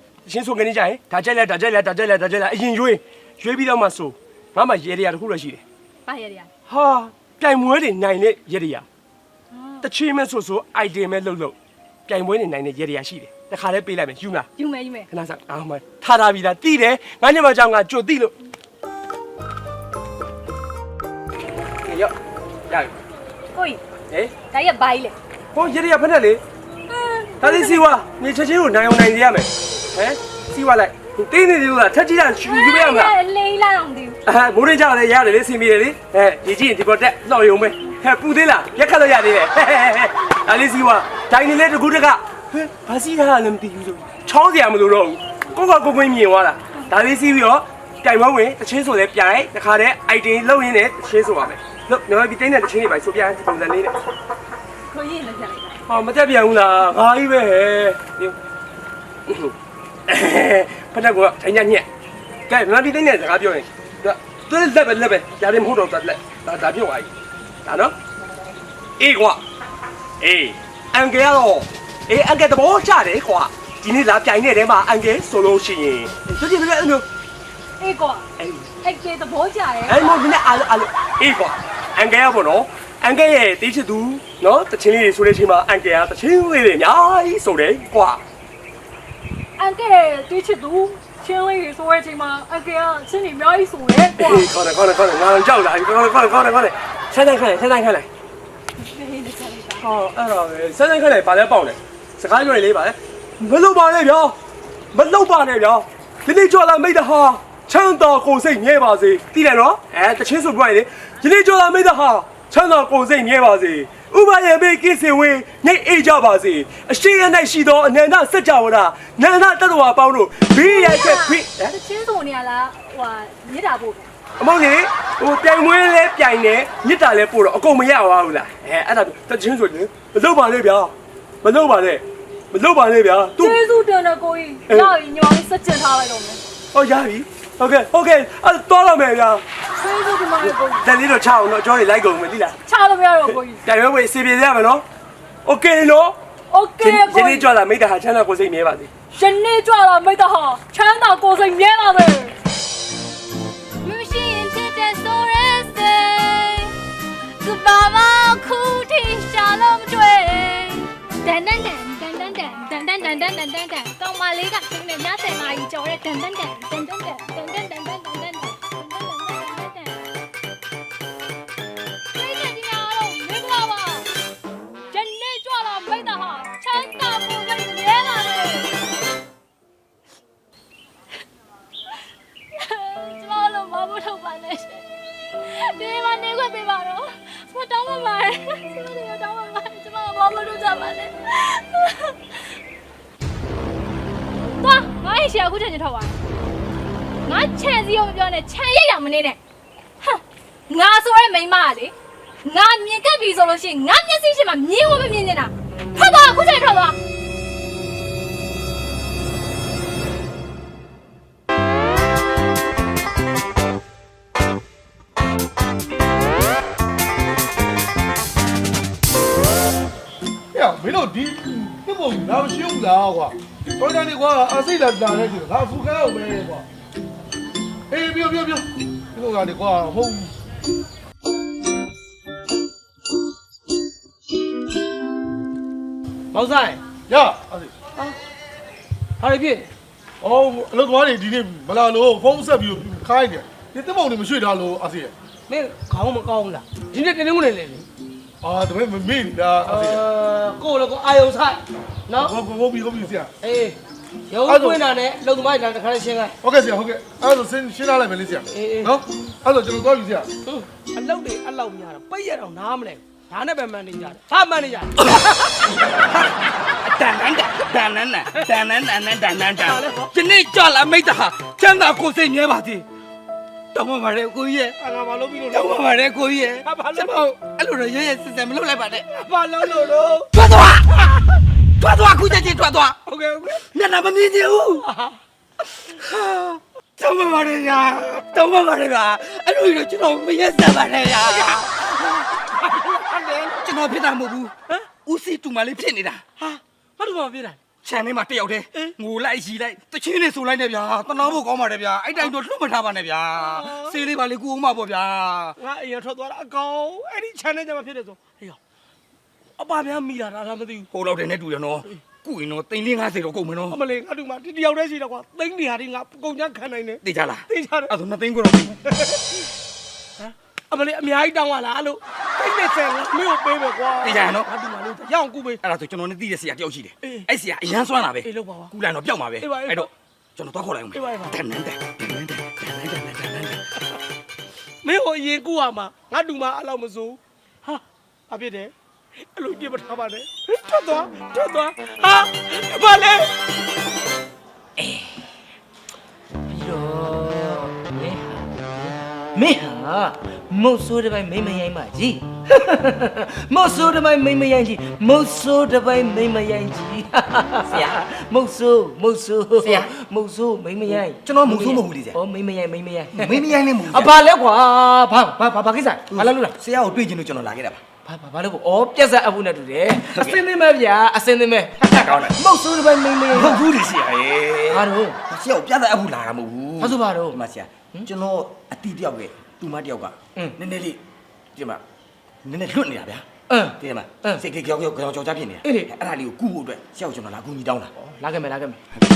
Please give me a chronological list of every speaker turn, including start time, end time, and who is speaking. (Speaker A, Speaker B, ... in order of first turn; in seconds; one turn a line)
Speaker A: 0.3-5.6
Speaker B: 6.1-6.5
Speaker A: 6.7-8.8
Speaker B: 9.5-9.9
Speaker A: 9.8-11.6
Speaker A: 12.1-14.5
Speaker B: 14.6-15.1
Speaker A: 15.1-18.4
Speaker A: 21.9-22.1
Speaker B: 23.6-23.8
Speaker B: 24.5-25.2
Speaker A: 25.5-26.4
Speaker B: 26.9-27.8
Speaker A: 27.4-33.1
Speaker B: 32.4-34.2
Speaker A: 34.3-54.0
Speaker B: 54.9-55.8
Speaker A: 55.9-58.4
Speaker A: 59.3-59.5
Speaker A: 60.1-61.9
Speaker A: 62.5-67.1
Speaker A: 67.7-68.0
Speaker A: 69.0-69.4
Speaker A: 70.2-77.1
Speaker B: 77.8-78.2
Speaker A: 78.4-78.7
Speaker B: 78.8-80.1
Speaker A: 79.9-88.2
Speaker B: 89.6-94.5
Speaker A: 94.2-98.1
Speaker B: 98.8-99.8
Speaker A: 99.8-104.4
Speaker A: 104.9-121.8
Speaker B: 120.6-124.1
Speaker A: 124.4-133.6
Speaker B: 133.4-136.4
Speaker A: 134.7-134.9
Speaker A: 136.7-139.4
Speaker B: 139.8-140.9
Speaker A: 140.4-142.6
Speaker B: 142.7-143.6
Speaker A: 143.3-144.8
Speaker A: 145.4-146.2
Speaker B: 146.5-147.5
Speaker A: 146.8-148.9
Speaker B: 149.1-152.3
Speaker B: 153.8-156.8
Speaker B: 157.4-170.1
Speaker B: 172.2-174.1
Speaker B: 174.9-178.7
Speaker B: 182.5-184.9
Speaker B: 185.4-192.5
Speaker B: 194.6-196.2
Speaker B: 197.3-199.4
Speaker B: 200.0-207.0
Speaker C: 220.5-226.7
Speaker C: 227.9-230.3
Speaker D: 236.3-236.8
Speaker C: 237.1-237.7
Speaker D: 239.2-239.7
Speaker C: 240.2-245.1
Speaker D: 245.5-247.9
Speaker C: 248.4-250.0
Speaker D: 249.7-252.4
Speaker C: 252.2-253.3
Speaker D: 253.4-253.8
Speaker D: 254.3-256.4
Speaker C: 254.4-254.8
Speaker C: 256.4-260.3
Speaker D: 258.5-258.9
Speaker D: 260.5-265.0
Speaker E: 265.0-272.9
Speaker D: 269.6-270.1
Speaker E: 273.7-274.8
Speaker D: 274.8-275.8
Speaker E: 275.5-279.1
Speaker D: 276.6-277.4
Speaker D: 279.0-280.3
Speaker E: 280.3-281.1
Speaker E: 281.8-283.0
Speaker D: 283.1-283.6
Speaker E: 283.6-284.9
Speaker D: 284.8-285.2
Speaker E: 285.9-291.7
Speaker D: 291.2-293.6
Speaker E: 293.5-296.2
Speaker D: 296.4-297.6
Speaker E: 297.8-305.6
Speaker D: 303.4-304.0
Speaker D: 305.6-308.6
Speaker D: 309.6-310.9
Speaker E: 310.9-313.8
Speaker D: 313.7-317.9
Speaker E: 317.0-318.8
Speaker D: 318.9-319.2
Speaker D: 320.2-325.6
Speaker E: 324.0-324.5
Speaker E: 325.6-333.6
Speaker D: 327.0-327.3
Speaker D: 328.2-328.7
Speaker D: 329.4-329.9
Speaker D: 330.9-331.4
Speaker D: 334.8-338.7
Speaker D: 339.4-343.3
Speaker F: 344.8-345.2
Speaker F: 346.5-366.6
Speaker E: 357.7-358.0
Speaker E: 359.6-359.9
Speaker E: 360.9-362.2
Speaker E: 363.1-364.2
Speaker E: 366.1-367.8
Speaker F: 368.1-373.6
Speaker E: 370.1-370.4
Speaker E: 371.8-372.4
Speaker E: 373.3-381.0
Speaker F: 374.7-375.2
Speaker F: 376.8-377.4
Speaker E: 381.5-381.8
Speaker E: 382.4-383.3
Speaker F: 383.5-384.4
Speaker E: 383.8-387.9
Speaker F: 385.6-385.9
Speaker F: 388.0-388.8